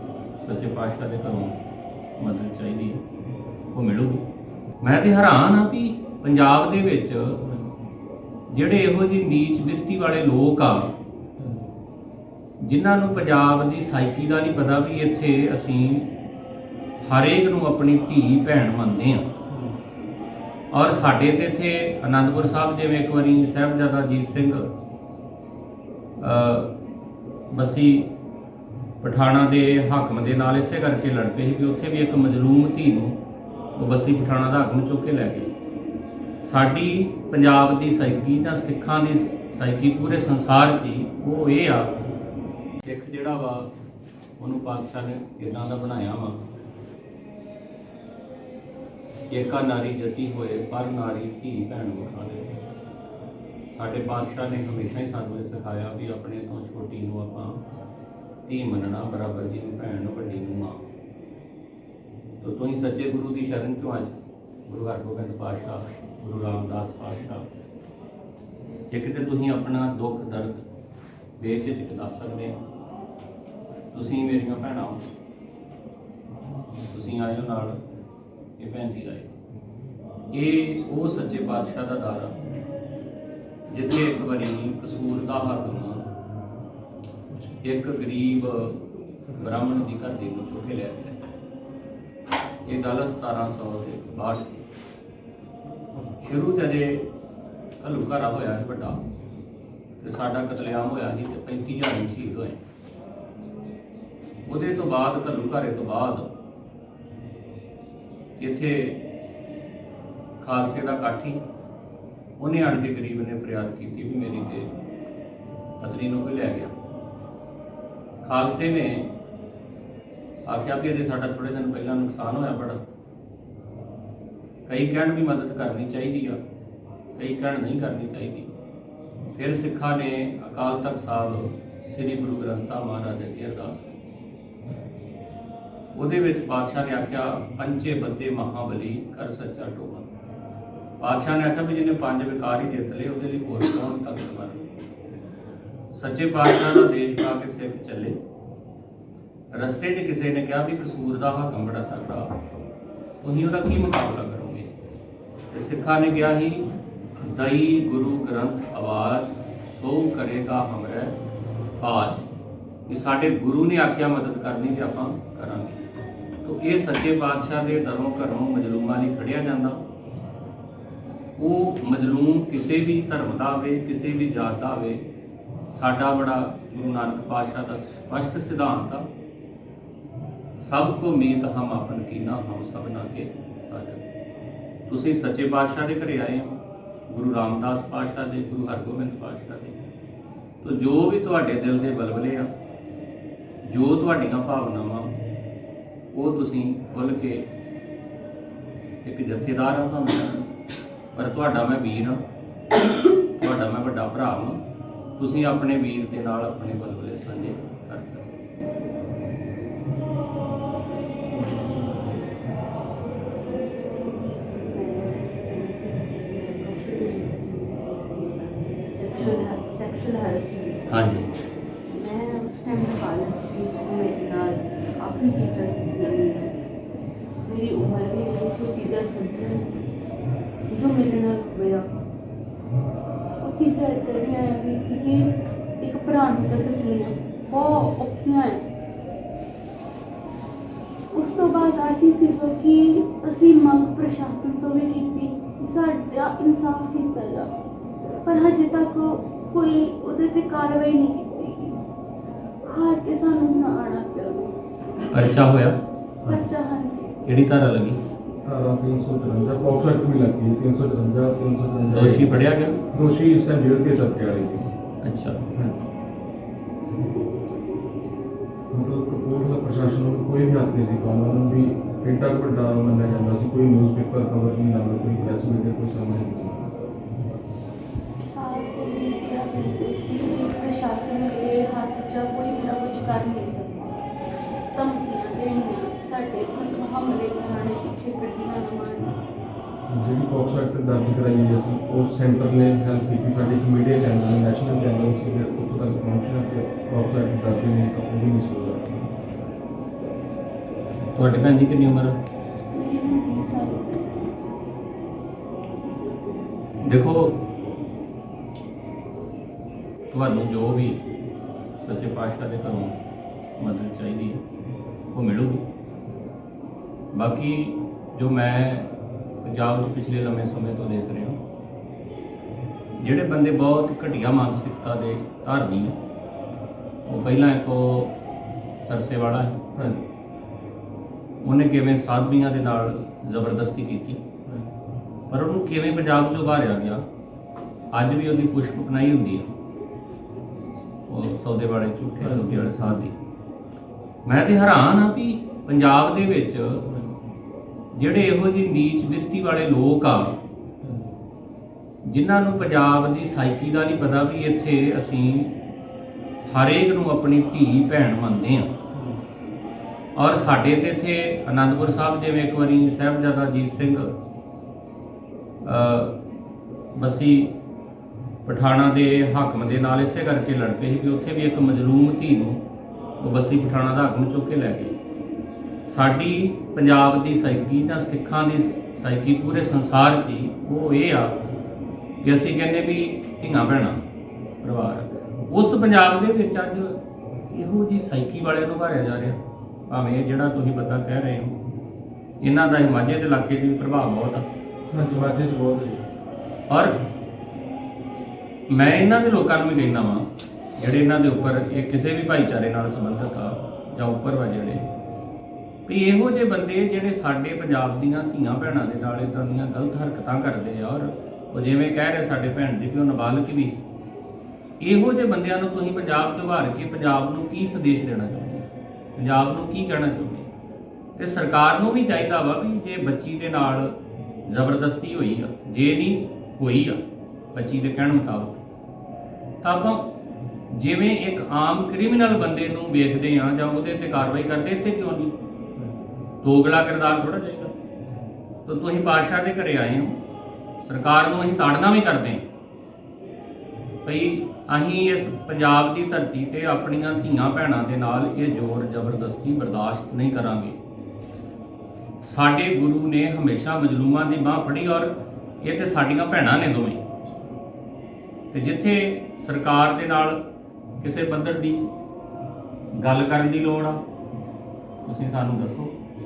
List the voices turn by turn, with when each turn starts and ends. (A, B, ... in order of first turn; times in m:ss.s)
0:00.4-0:01.6 A
0:02.2-0:03.0 A
0:03.7-0:04.2 A
0:04.8-0:07.4 A
0:07.5-0:07.7 B
0:08.5-0:10.9 A
0:11.4-0:11.7 B
0:12.6-0:16.1 A
0:17.0-0:19.3 A
0:19.5-0:19.8 B
0:20.7-0:24.7 A
0:26.2-0:26.7 A
0:27.5-0:28.1 A
0:29.0-0:33.2 A
0:33.8-0:35.5 A
0:36.4-0:41.9 A
0:42.8-0:43.7 A
0:44.4-0:46.4 A
0:49.3-0:52.5 A
0:53.7-0:57.6 A
0:58.5-1:00.9 A
1:02.4-1:04.2 A
1:04.7-1:07.5 A
1:08.9-1:10.6 A
1:11.4-1:12.6 A
1:13.9-1:15.0 A
1:16.9-1:17.8 A
1:18.6-1:19.3 A
1:20.3-1:22.4 A
1:23.7-1:26.0 A
1:27.6-1:28.8 A
1:29.3-1:31.2 A
1:32.6-1:34.6 A
1:36.2-1:37.1 A
1:37.8-1:39.0 A
1:40.0-1:42.6 A
1:44.5-1:46.3 A
1:48.4-1:49.0 A
1:50.4-1:51.4 A
1:52.4-1:54.7 A
1:55.8-1:56.7 A
1:58.2-1:59.1 A
2:00.5-2:02.8 A
2:04.7-2:06.4 A
2:07.2-2:08.5 A
2:09.4-2:14.1 A
2:15.9-2:20.1 A
2:21.0-2:24.6 A
2:25.9-2:28.2 A
2:29.5-2:32.3 A
2:33.2-2:34.7 A
2:35.5-2:36.7 A
2:37.2-2:41.2 A
2:41.8-2:42.2 A
2:42.9-2:45.8 A
2:46.4-2:49.8 A
2:51.4-2:55.0 A
2:55.7-2:59.1 A
3:00.6-3:04.0 A
3:04.9-3:09.8 A
3:10.6-3:12.5 A
3:13.6-3:15.1 A
3:16.1-3:17.5 A
3:19.0-3:20.5 A
3:21.1-3:22.2 A
3:23.4-3:24.6 A
3:25.2-3:28.4 A
3:31.3-3:32.3 B
3:34.6-3:40.9 C
3:40.9-3:41.3 A
3:41.9-3:46.5 C
3:47.4-3:49.6 C
3:50.7-3:51.9 C
3:53.4-3:58.6 C
4:01.1-4:07.5 C
4:08.2-4:11.8 C
4:12.6-4:14.5 C
4:15.1-4:15.8 A
4:16.2-4:17.1 C
4:17.2-4:18.0 A
4:18.4-4:22.4 B
4:21.9-4:22.8 A
4:22.9-4:24.7 B
4:25.0-4:25.4 A
4:28.7-4:36.6 B
4:38.2-4:44.0 C
4:44.7-4:49.2 C
4:49.9-4:59.0 B
5:01.1-5:02.2 A
5:02.7-5:04.2 C
5:06.8-5:07.4 A
5:10.1-5:11.0 A
5:11.8-5:13.0 A
5:13.6-5:14.4 A
5:15.1-5:15.6 A
5:17.1-5:18.9 A
5:19.4-5:21.4 A
5:23.0-5:26.0 A
5:27.1-5:28.1 A
5:28.8-5:29.6 A
5:29.8-5:30.0 B
5:31.4-5:34.2 A
5:35.3-5:37.0 A
5:37.9-5:39.5 A
5:41.1-5:43.1 A
5:42.2-5:43.0 B
5:44.3-5:46.9 A
5:46.9-5:47.3 B
5:48.0-5:50.4 A
5:50.8-5:51.1 B
5:52.0-5:55.5 A
5:56.5-5:58.7 A
5:58.9-5:59.2 B
6:00.2-6:04.2 A
6:05.6-6:06.2 A
6:07.0-6:07.5 A
6:08.4-6:12.6 A
6:13.2-6:15.0 A
6:15.8-6:21.4 A
6:22.2-6:24.0 A
6:24.6-6:27.0 A
6:27.5-6:31.6 A
6:32.4-6:34.5 A
6:34.9-6:36.1 B
6:36.7-6:37.0 A
6:38.7-6:44.8 A
6:45.9-6:53.8 A
6:54.8-7:00.5 A
7:01.2-7:04.0 A
7:04.5-7:07.0 A
7:07.6-7:08.6 A
7:09.6-7:10.0 A
7:10.7-7:15.3 A
7:16.4-7:17.7 A
7:18.7-7:20.2 A
7:20.8-7:22.4 A
7:24.0-7:30.8 A
7:32.2-7:37.1 A
7:38.5-7:40.4 A
7:41.0-7:41.9 A
7:42.9-7:44.0 A
7:45.0-7:46.0 A